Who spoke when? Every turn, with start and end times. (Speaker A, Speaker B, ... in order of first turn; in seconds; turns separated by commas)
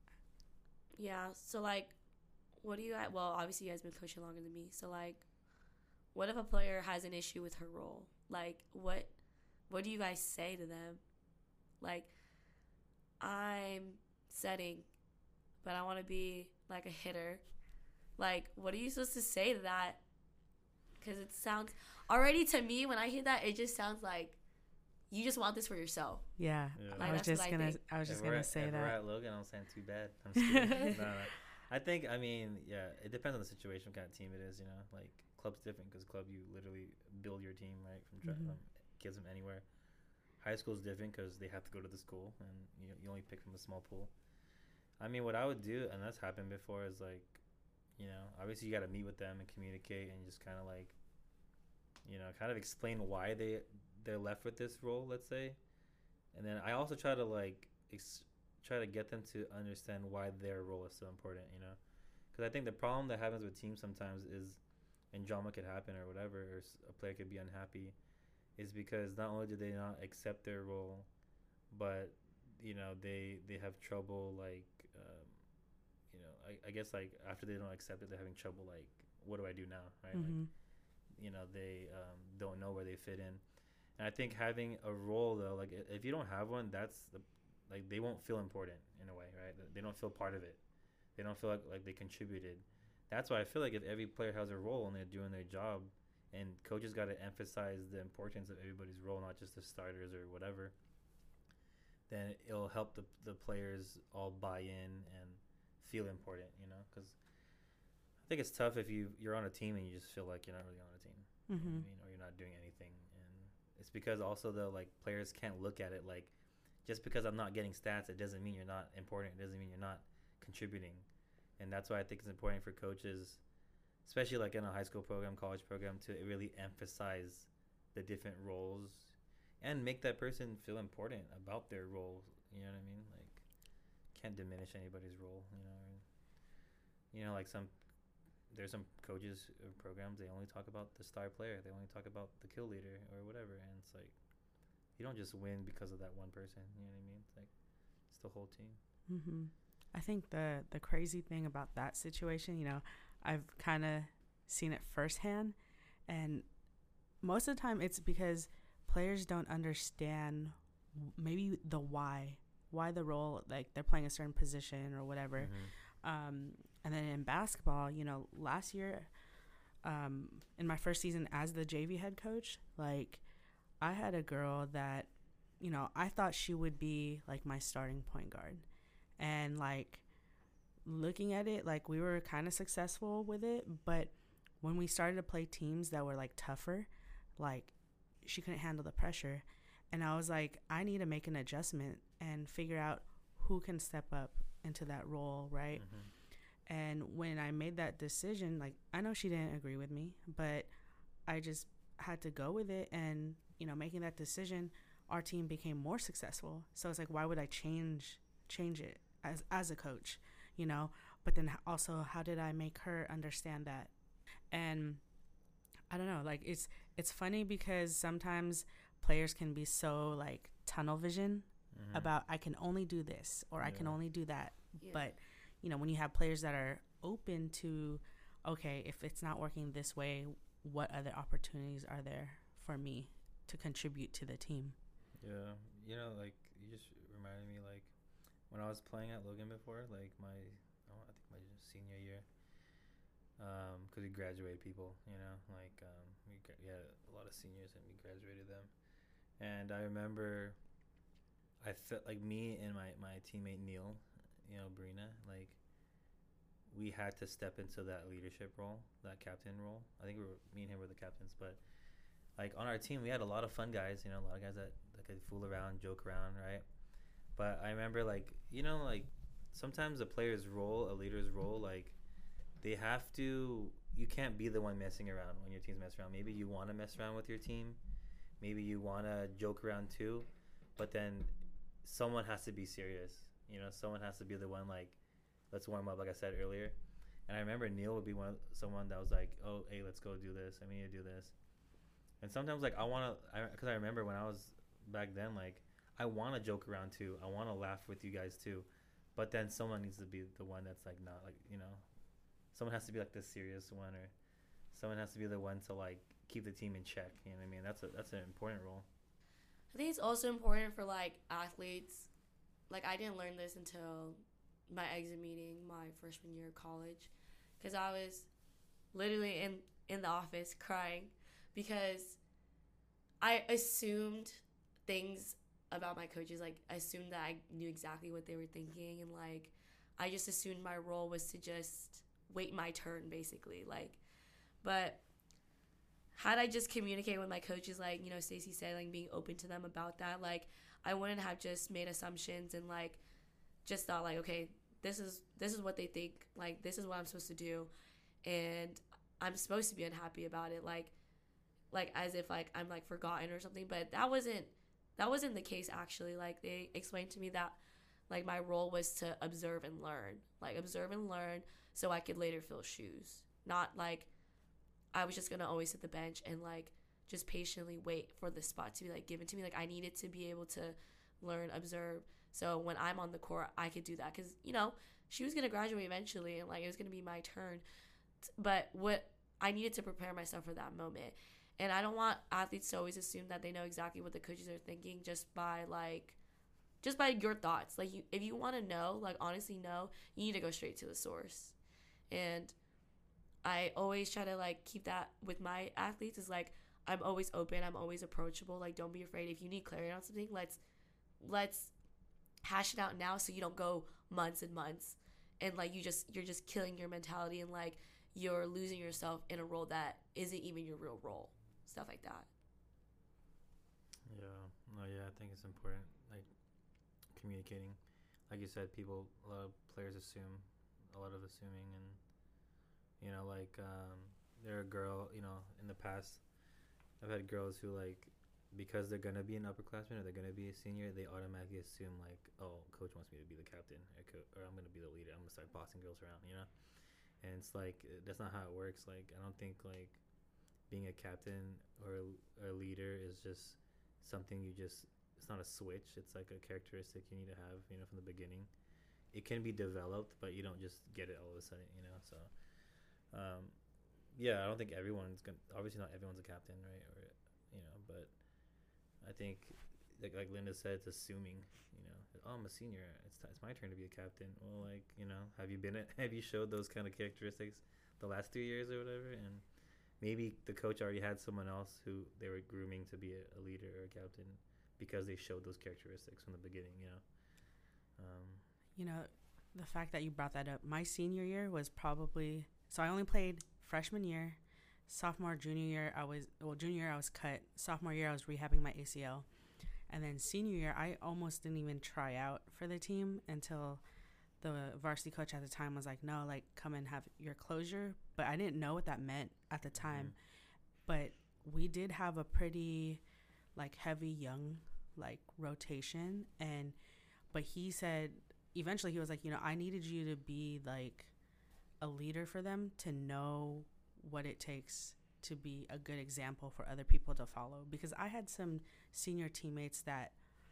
Speaker A: 0.9-1.9, Speaker A: 2.6-5.2, Speaker A: 6.1-9.1, Speaker A: 9.7-11.0, Speaker A: 11.8-12.1, Speaker A: 13.2-14.9, Speaker A: 15.6-17.4, Speaker A: 18.2-20.0, Speaker A: 21.0-24.4, Speaker A: 25.1-26.4, Speaker B: 26.4-28.9, Speaker C: 26.7-27.2, Speaker A: 26.9-27.8, Speaker C: 28.0-39.6, Speaker B: 30.4-30.9, Speaker B: 38.2-38.5, Speaker C: 40.4-44.1, Speaker C: 45.0-47.4, Speaker C: 48.0-51.0, Speaker C: 52.0-55.6, Speaker C: 56.3-61.8, Speaker C: 62.3-64.6, Speaker C: 65.1-68.0, Speaker C: 68.6-71.1, Speaker C: 71.7-75.4, Speaker C: 76.1-80.4, Speaker B: 80.1-80.5, Speaker C: 81.2-83.4, Speaker C: 84.0-90.6, Speaker C: 91.2-100.7, Speaker C: 102.1-107.2, Speaker C: 108.2-121.1, Speaker B: 111.5-111.8, Speaker C: 121.6-123.4, Speaker C: 124.0-133.4, Speaker C: 134.1-136.0, Speaker C: 137.1-137.7, Speaker C: 138.5-144.1, Speaker C: 144.9-147.5, Speaker C: 148.1-148.8, Speaker B: 149.1-155.5, Speaker B: 156.1-156.4, Speaker B: 157.2-169.1, Speaker C: 165.4-165.7, Speaker B: 169.8-173.2, Speaker B: 173.8-178.6, Speaker B: 179.2-180.0, Speaker B: 180.8-195.8, Speaker C: 195.7-196.1, Speaker B: 196.7-200.7, Speaker B: 201.3-213.9, Speaker B: 214.5-215.0, Speaker B: 215.9-234.8, Speaker C: 221.7-222.1, Speaker C: 223.6-224.0, Speaker A: 224.8-225.1, Speaker C: 235.2-237.9, Speaker C: 238.5-242.2, Speaker C: 243.4-248.7, Speaker C: 249.4-250.6, Speaker C: 251.6-255.6, Speaker C: 256.7-261.6, Speaker C: 262.4-266.6, Speaker C: 267.4-272.0, Speaker C: 272.6-277.8, Speaker C: 278.4-285.0, Speaker C: 285.5-286.8, Speaker C: 287.3-291.3, Speaker C: 292.2-301.8, Speaker C: 302.5-304.1, Speaker C: 304.7-308.9, Speaker A: 309.7-312.1, Speaker A: 312.7-318.3, Speaker A: 318.9-322.2, Speaker A: 323.2-334.0, Speaker A: 334.6-335.0, Speaker A: 336.1-343.0, Speaker A: 343.6-347.7, Speaker A: 348.2-350.9, Speaker A: 351.7-364.1, Speaker A: 364.9-377.6, Speaker A: 378.4-386.2, Speaker A: 386.8-391.5, Speaker A: 392.1-392.5, Speaker A: 393.4-400.6, Speaker A: 401.2-401.7, Speaker A: 402.4-412.3, Speaker C: 414.1-416.3, Speaker C: 417.1-417.8, Speaker C: 418.3-422.0, Speaker C: 423.0-426.2, Speaker C: 427.0-436.5, Speaker C: 437.2-440.0, Speaker C: 440.7-448.5, Speaker C: 449.1-452.3, Speaker C: 453.1-453.6, Speaker C: 454.1-458.1, Speaker C: 459.0-469.4, Speaker C: 470.0-477.0, Speaker C: 478.0-478.4, Speaker B: 478.8-489.2, Speaker B: 489.9-493.8, Speaker B: 494.4-500.1, Speaker C: 499.8-500.1, Speaker B: 500.9-503.0, Speaker B: 503.5-506.7, Speaker B: 507.3-511.1, Speaker B: 511.8-520.1